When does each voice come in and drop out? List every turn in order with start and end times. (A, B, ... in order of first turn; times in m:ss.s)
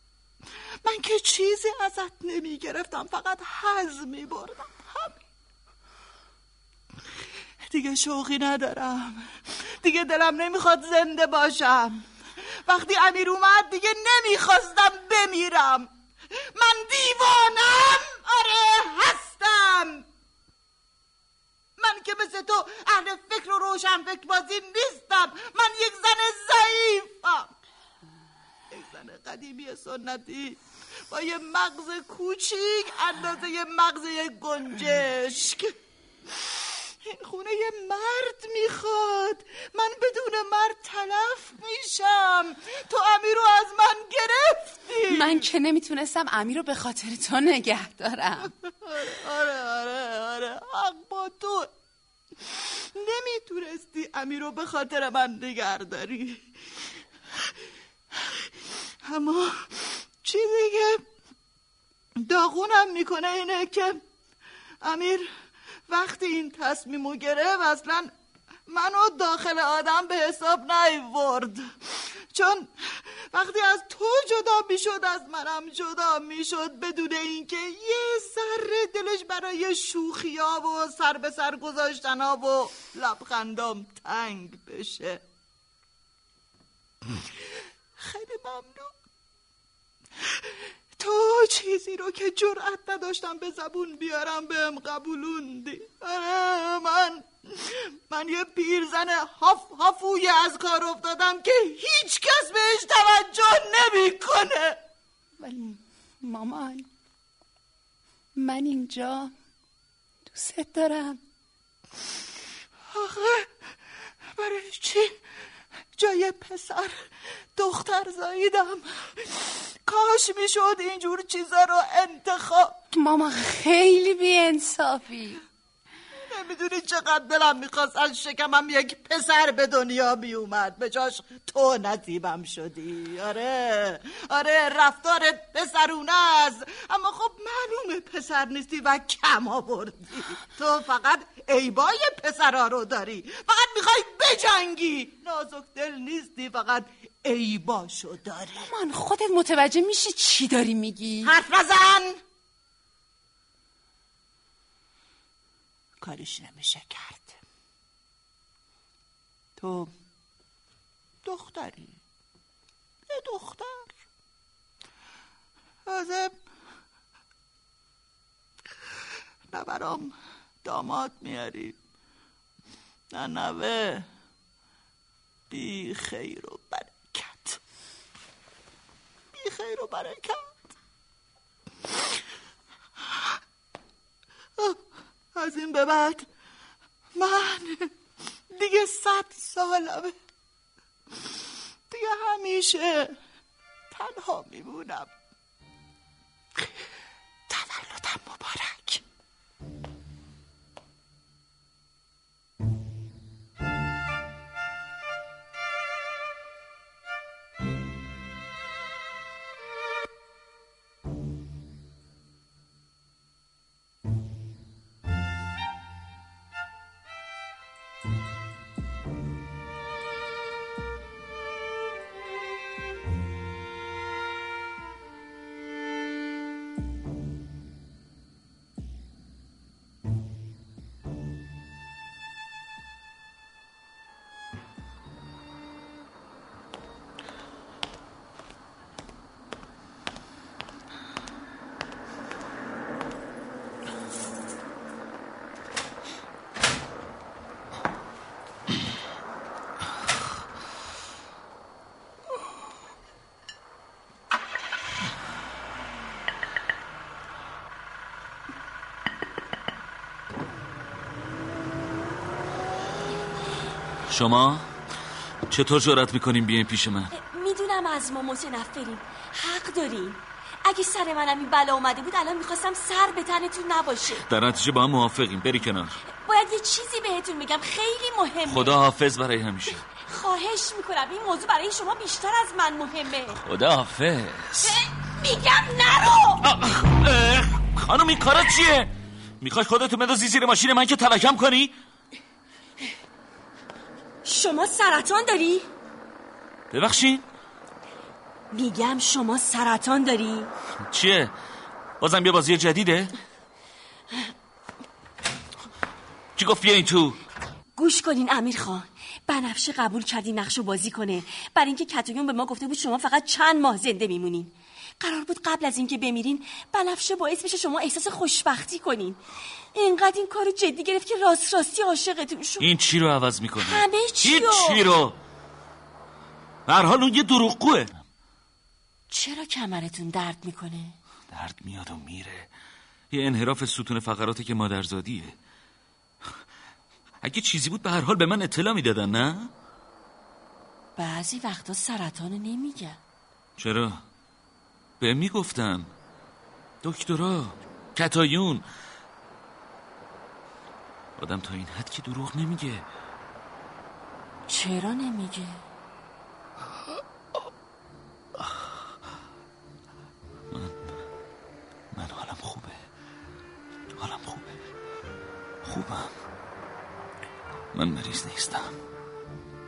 0:00.8-0:05.2 A
0:07.7-0:12.1 A
0:12.7-0:15.9 A
0:16.6-0:20.0 A
0:21.8-0:27.5 A
0:28.7-0:35.8 A
0:36.3-0:45.5 A
0:45.1-0:48.5 B
0:48.6-0:51.7 A
0:52.4-0:56.5 A
0:58.2-0:58.5 A
0:59.0-1:01.0 A
1:02.2-1:04.0 A
1:04.8-1:05.3 A
1:05.9-1:08.1 A
1:08.7-1:25.2 A
1:28.0-1:28.9 A
1:30.2-1:44.8 A
1:45.4-1:46.9 B
1:48.4-1:49.3 B
1:50.3-1:51.2 B
1:52.9-1:53.5 A
1:54.4-1:55.2 A
1:56.0-2:02.8 A
2:02.9-2:05.4 B
2:06.2-2:28.7 A
2:28.6-2:31.3 B
2:31.2-2:32.2 A
2:36.0-2:37.4 A
2:39.6-2:39.9 A
2:41.2-2:42.0 A
2:43.1-2:43.9 A
2:45.9-2:46.4 A
2:49.5-2:51.8 A
2:53.1-2:54.1 A
2:55.5-2:57.6 A
2:59.3-3:00.5 A
3:05.4-3:06.3 A
3:07.2-3:07.9 A
3:08.5-3:10.2 A
3:11.9-3:13.2 A
3:13.9-3:15.1 A
3:17.5-3:19.0 A
4:24.1-4:24.7 C
4:25.5-4:27.1 C
4:27.1-4:34.3 D
4:34.2-4:36.0 C
4:36.2-4:38.8 D
4:38.4-4:39.8 C
4:40.1-4:43.4 D
4:43.4-4:44.8 C
4:44.6-4:46.4 D
4:46.4-4:51.7 C
4:54.2-4:55.7 D
4:56.7-4:57.3 C
4:58.5-5:00.5 D
5:00.9-5:01.3 C
5:02.0-5:03.1 C
5:06.4-5:07.2 C
5:07.8-5:19.2 D
5:19.7-5:22.7 D
5:22.6-5:25.2 C
5:23.6-5:24.8 D
5:26.7-5:28.0 C
5:29.1-5:31.0 D
5:31.3-5:32.5 C
5:33.1-5:35.4 C
5:37.2-5:39.5 C
5:41.0-5:43.0 D
5:43.6-5:44.0 C
5:45.0-5:45.9 C
5:46.8-5:48.6 C
5:51.2-5:52.9 C
5:54.5-5:55.6 D
6:00.5-6:00.8 C
6:01.9-6:02.8 C
6:04.0-6:04.6 C
6:05.6-6:06.1 C
6:07.7-6:08.8 C